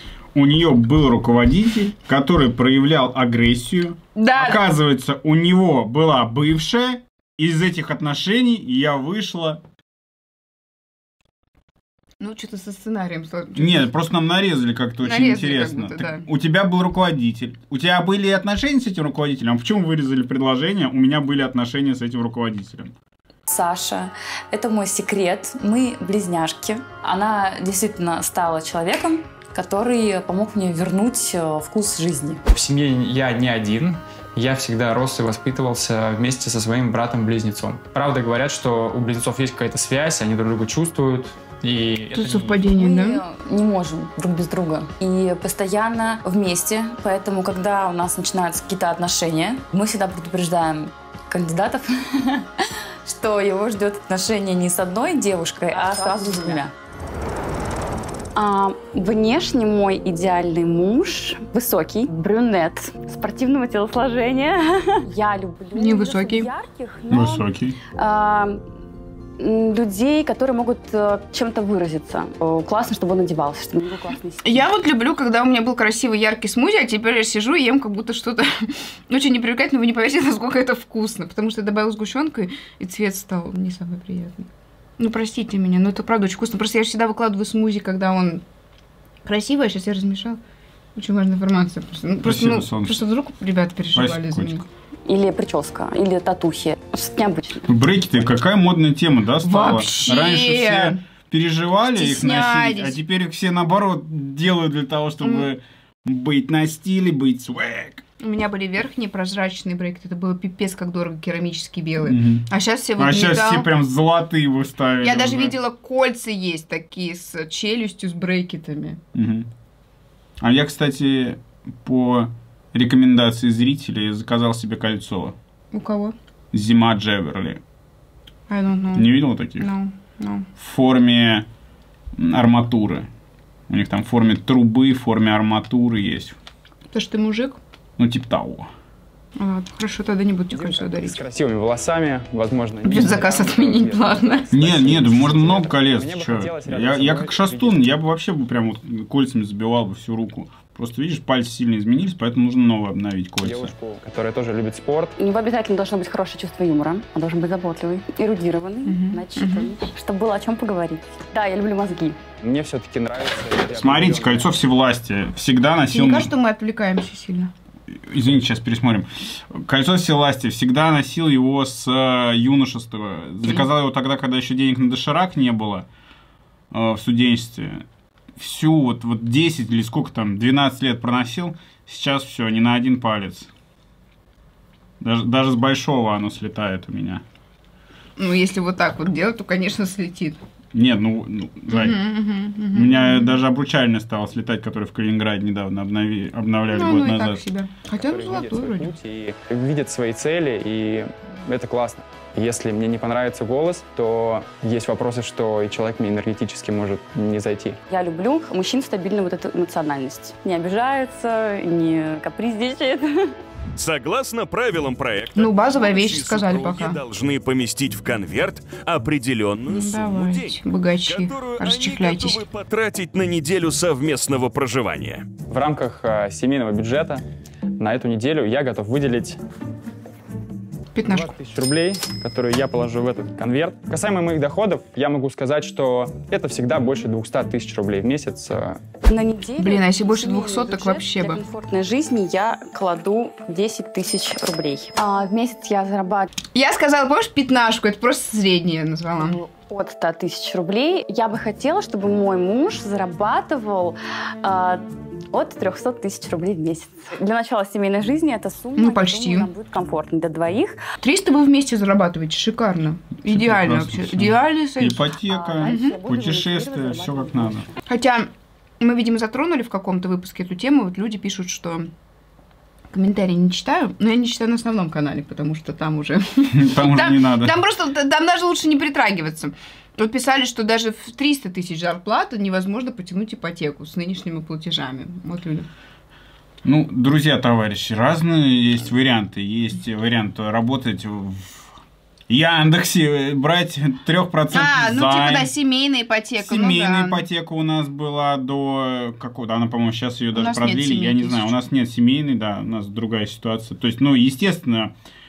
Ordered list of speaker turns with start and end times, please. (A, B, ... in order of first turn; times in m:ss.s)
0:00.3-0:09.6 A
0:04.2-0:04.6 B
0:12.2-0:13.9 B
0:13.6-0:22.9 A
0:15.0-0:16.2 B
0:23.5-0:32.4 C
0:32.5-0:42.6 D
0:42.1-0:43.2 B
0:42.6-0:52.5 C
0:53.0-0:56.7 C
0:58.3-1:08.6 C
1:05.7-1:06.5 B
1:07.1-1:07.8 A
1:09.4-1:14.6 C
1:14.4-1:24.5 B
1:25.0-1:28.4 B
1:29.2-1:30.4 B
1:31.0-1:34.6 B
1:32.2-1:33.0 A
1:33.9-1:34.6 A
1:35.1-1:37.7 C
1:37.7-1:48.0 A
1:39.4-1:41.0 B
1:41.9-1:43.0 B
1:45.2-1:45.5 B
1:48.2-1:53.7 B
1:52.0-1:55.6 A
1:55.0-1:59.0 B
1:59.1-1:59.5 A
2:00.4-2:05.4 A
2:05.7-2:06.1 B
2:06.5-2:07.6 A
2:08.5-2:10.5 B
2:08.9-2:09.7 A
2:10.6-2:11.5 A
2:12.2-2:13.1 A
2:13.7-2:16.4 A
2:16.9-2:17.6 B
2:18.0-2:18.7 A
2:19.4-2:21.2 B
2:20.5-2:27.9 D
2:22.8-2:24.5 B
2:24.5-2:33.7 A
2:33.4-2:35.1 D
2:35.2-2:42.2 C
2:38.8-2:39.7 B
2:42.4-2:44.5 D
2:43.7-2:46.3 A
2:45.9-2:47.5 B
2:48.0-2:55.9 A
2:56.7-2:57.8 A
2:58.4-3:03.5 A
3:05.0-3:07.2 A
3:08.2-3:10.4 B
3:10.7-3:12.0 A
3:11.7-3:13.4 B
3:12.7-3:17.4 A
3:16.7-3:18.9 B
3:17.9-3:27.8 D
3:27.9-3:33.3 C
3:33.8-3:45.3 E
3:35.3-3:37.0 B
3:39.7-3:42.4 B
3:45.5-3:47.2 D
3:47.8-3:49.4 D
3:50.9-3:51.3 B
3:51.0-3:58.8 D
3:59.0-4:06.3 C
3:59.6-4:01.4 B
4:06.5-4:09.4 B
4:09.2-4:20.8 C
4:18.8-4:19.5 B
4:21.0-4:25.1 B
4:23.2-4:27.7 A
4:25.2-4:27.8 C
4:25.6-4:26.0 B
4:27.8-4:31.9 B
4:32.9-4:45.7 B
4:36.5-4:37.6 A
4:46.6-4:51.7 A
4:52.3-4:55.5 A
4:54.5-4:57.2 B
4:56.4-5:04.9 A
5:00.3-5:01.6 B